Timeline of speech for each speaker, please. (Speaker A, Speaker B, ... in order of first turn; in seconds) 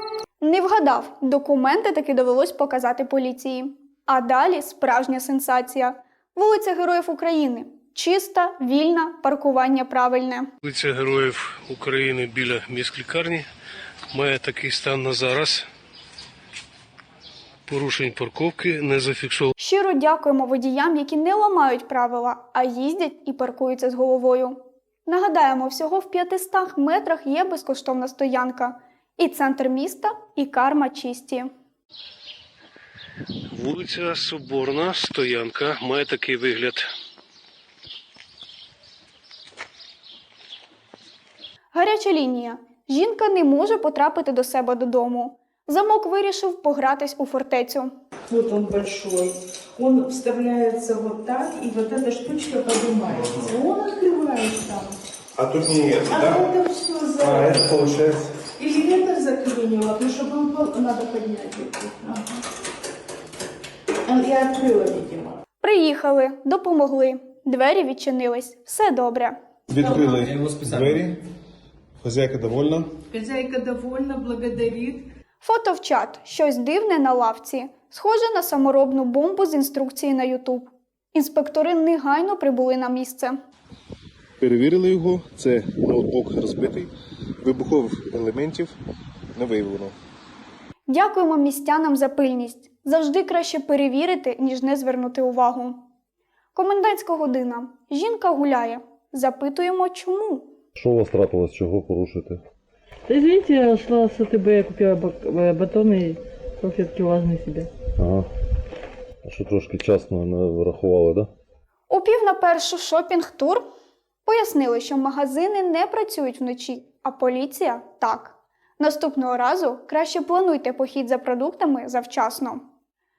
Speaker A: 0.4-10.5, 19.6-31.5, 41.7-47.9, 65.6-69.4, 75.4-83.4, 90.9-95.8, 96.5-100.5, 111.9-113.6, 114.2-122.6
Speaker B: 10.6-13.4, 14.1-15.7, 17.7-19.5, 33.5-36.8
Speaker C: 48.3-55.0, 56.0-58.0, 58.6-62.4, 64.0-65.4, 69.8-70.3, 73.1-75.1
Speaker D: 55.4-56.4, 57.2-58.3, 69.7-71.2, 72.0-72.9, 84.4-86.9, 87.4-88.7, 89.3-89.9
Speaker E: 100.8-102.4, 108.0-108.3, 109.2-111.3
Speaker F: 103.1-107.7